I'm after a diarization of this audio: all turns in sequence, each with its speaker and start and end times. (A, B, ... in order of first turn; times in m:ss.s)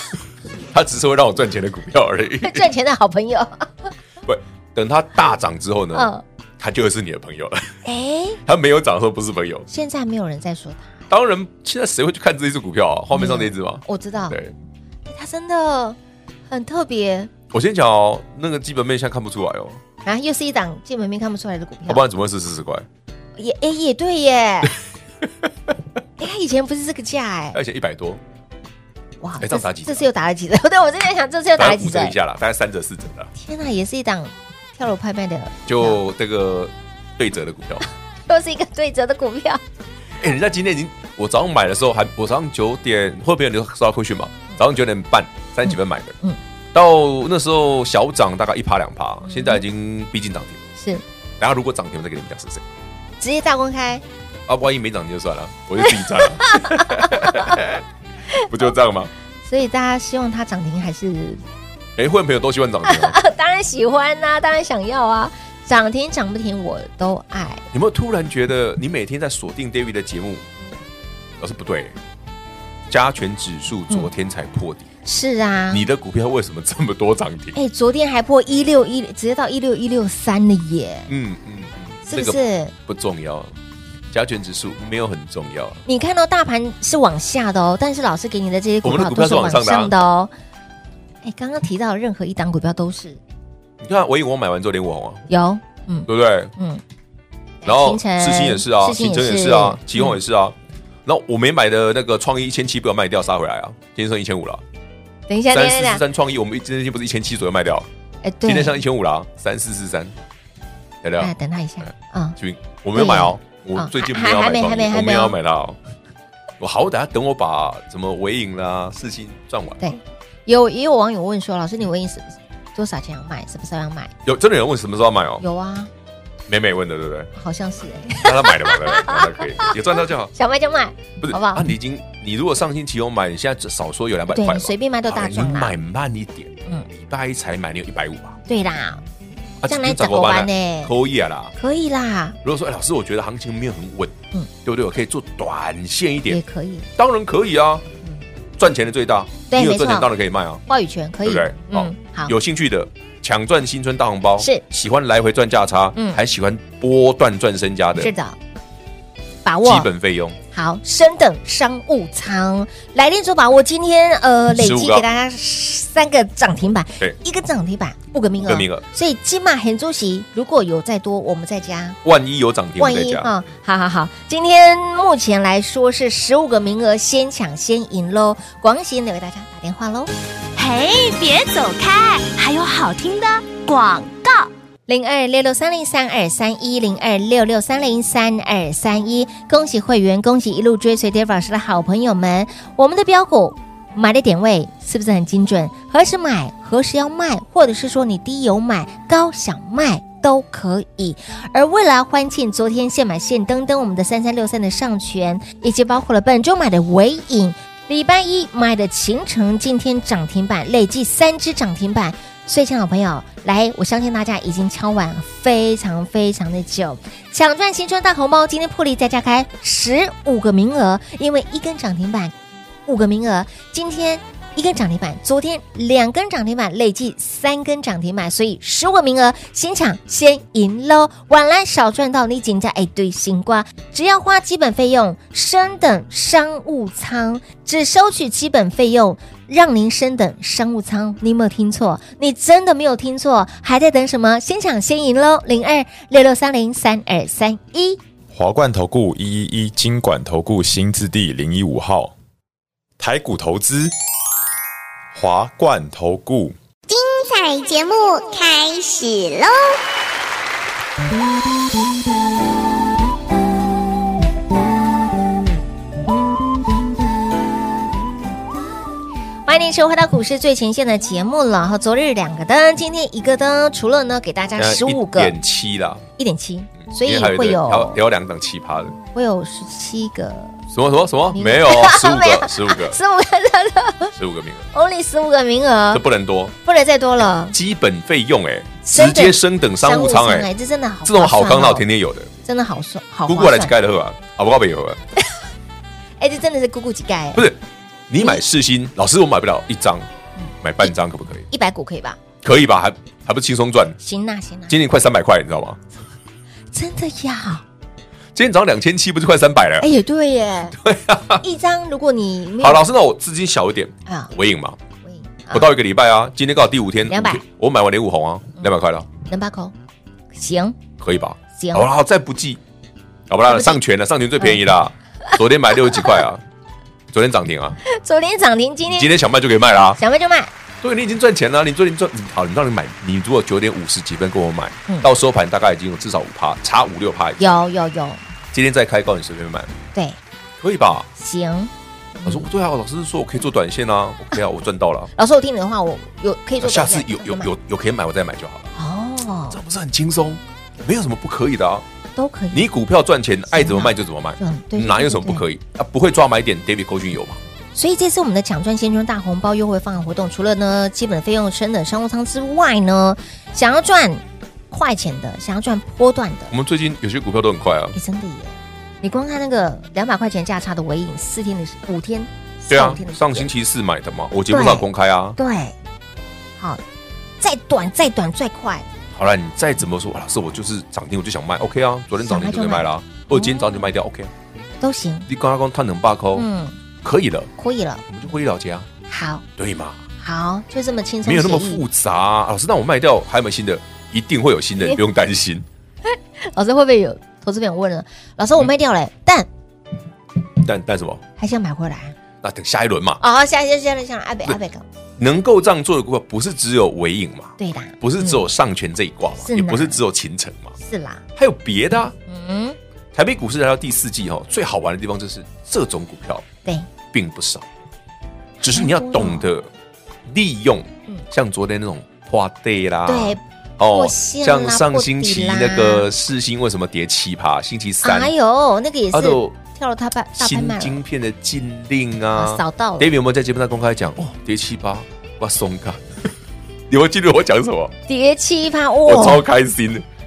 0:00.7-0:02.7 A
0:02.4-0:03.9 B
0:04.2-0:07.8 A
0:05.9-0:06.2 B
0:07.8-0:08.4 B
0:08.4-0:09.7 A
0:09.7-0:11.0 B
0:11.1-0:14.5 A
0:13.1-0:14.4 B
0:15.1-0:16.0 B
0:16.5-0:17.3 B
0:17.5-0:19.8 A
0:20.0-0:22.0 B
0:21.8-0:22.9 A
0:23.4-0:24.8 B
0:26.2-0:27.6 B
0:27.5-0:28.2 A
0:29.2-0:32.2 B
0:29.4-0:30.1 A
0:31.6-0:33.3 A
0:33.3-0:36.0 B
0:35.6-0:37.8 A
0:38.3-0:39.6 B
0:40.2-0:46.2 A
0:46.7-0:50.6 A
0:49.2-0:49.6 B
0:51.4-0:52.6 A
0:53.2-0:54.0 B
0:54.5-0:57.8 A
0:55.8-0:57.6 B
0:58.5-0:59.1 A
0:59.4-1:01.4 B
1:02.0-1:03.2 A
1:02.8-1:07.7 B
1:07.7-1:10.4 A
1:11.4-1:12.0 A
1:12.9-1:14.9 A
1:15.0-1:15.8 B
1:15.7-1:17.6 A
1:17.5-1:21.1 B
1:21.1-1:23.5 A
1:22.1-1:22.7 B
1:24.1-1:25.8 A
1:25.8-1:30.3 B
1:28.8-1:29.9 A
1:31.2-1:33.2 B
1:33.8-1:35.2 A
1:35.3-1:36.8 B
1:36.1-1:36.5 A
1:37.6-1:40.2 B
1:37.6-1:44.6 A
1:45.3-1:46.0 B
1:45.5-1:47.9 A
1:48.2-1:48.8 B
1:48.4-1:50.1 A
1:51.0-1:55.8 A
1:51.2-1:52.4 B
1:52.9-1:55.4 B
1:56.6-1:59.9 A
1:59.8-2:04.1 B
2:04.2-2:05.4 A
2:05.4-2:05.9 B
2:06.5-2:07.3 A
2:07.4-2:11.7 B
2:08.2-2:10.3 A
2:11.2-2:18.4 A
2:14.3-2:15.7 B
2:18.5-2:19.0 B
2:19.6-2:21.5 A
2:19.7-2:20.9 B
2:21.6-2:22.4 B
2:22.4-2:26.4 A
2:26.3-2:26.9 B
2:27.0-2:27.8 A
2:28.6-2:30.6 A
2:29.5-2:30.1 B
2:30.7-2:32.3 B
2:31.2-2:38.1 A
2:36.0-2:36.2 B
2:38.0-2:38.4 B
2:39.4-2:39.9 B
2:39.6-2:40.4 A
2:40.5-2:52.0 B
2:44.5-2:45.0 A
2:48.4-2:48.8 A
2:52.0-2:53.3 A
2:52.8-3:00.1 B
3:00.6-3:04.1 C
3:04.9-3:42.3 B
3:42.8-4:08.0 B
4:08.3-4:12.1 D
4:13.0-4:13.9 D
4:15.1-4:16.6 D
4:16.9-4:19.8 E
4:29.4-4:35.3 B
4:34.6-4:36.0 A
4:36.2-4:38.0 B
4:36.9-4:39.0 A
4:39.1-4:40.6 B
4:40.7-4:43.0 A
4:41.3-4:44.1 B
4:44.1-4:44.7 A
4:44.7-4:46.0 B
4:45.9-4:46.5 A
4:46.6-4:47.6 B
4:47.5-4:50.5 A
4:48.8-4:51.8 B
4:51.0-4:52.3 A
4:52.4-4:53.7 B
4:53.3-4:55.0 A
4:56.2-4:57.5 B
4:57.3-5:00.1 A
5:00.4-5:00.9 B
5:00.6-5:01.5 A
5:01.5-5:02.2 B
5:02.4-5:04.0 A
5:04.0-5:04.8 B
5:04.7-5:05.8 A
5:06.7-5:07.6 B
5:08.3-5:09.9 A
5:09.8-5:10.8 B
5:10.7-5:11.4 A
5:11.4-5:12.8 B
5:12.6-5:14.8 A
5:14.1-5:14.3 B
5:15.0-5:15.7 B
5:15.5-5:19.1 A
5:17.1-5:17.4 B
5:19.2-5:19.7 B
5:20.3-5:20.8 B
5:21.0-5:22.6 A
5:21.6-5:21.9 B
5:23.3-5:26.4 A
5:23.5-5:23.8 B
5:25.9-5:26.2 B
5:27.1-5:27.8 A
5:27.8-5:29.1 B
5:28.9-5:30.0 A
5:30.0-5:30.5 B
5:30.8-5:37.6 A
5:37.4-5:38.2 B
5:38.5-5:39.7 A
5:40.6-5:41.1 A
5:41.2-5:42.5 B
5:42.2-5:45.1 A
5:45.2-5:47.5 B
5:46.6-5:48.7 A
5:48.8-5:49.6 B
5:49.5-5:51.8 A
5:52.2-5:52.6 B
5:52.5-5:57.4 A
5:53.5-5:55.4 B
5:57.7-6:06.5 B
6:06.5-6:08.0 A
6:07.9-6:13.5 B
6:12.7-6:15.4 A
6:14.5-6:14.8 B
6:15.4-6:15.8 B
6:17.4-6:18.9 B
6:19.1-6:24.3 A
6:22.2-6:23.9 B
6:24.8-6:25.3 B
6:25.3-6:26.5 A
6:26.3-6:26.8 B
6:27.0-6:27.5 A
6:27.6-6:28.0 B
6:28.1-6:28.9 A
6:29.1-6:29.4 B
6:29.6-6:30.0 A
6:30.2-6:31.8 B
6:31.2-6:35.6 A
6:36.0-6:39.5 B
6:40.6-6:41.2 A
6:41.4-6:42.2 B
6:42.4-6:43.2 A
6:43.2-6:44.8 B
6:45.2-6:50.8 A
6:47.6-6:48.4 B
6:49.4-6:50.0 B
6:50.8-6:51.2 B
6:51.4-6:52.2 A
6:52.3-6:52.8 B
6:53.1-6:56.5 A
6:57.1-6:57.6 A
6:58.6-6:59.7 A
6:58.7-6:59.5 B
7:00.2-7:08.3 A
7:03.1-7:03.4 B
7:03.9-7:06.1 B
7:08.0-7:11.0 B
7:09.1-7:09.6 A
7:10.4-7:16.3 A
7:12.3-7:13.1 B
7:16.9-7:18.0 A
7:18.1-7:19.4 B
7:19.0-7:20.0 A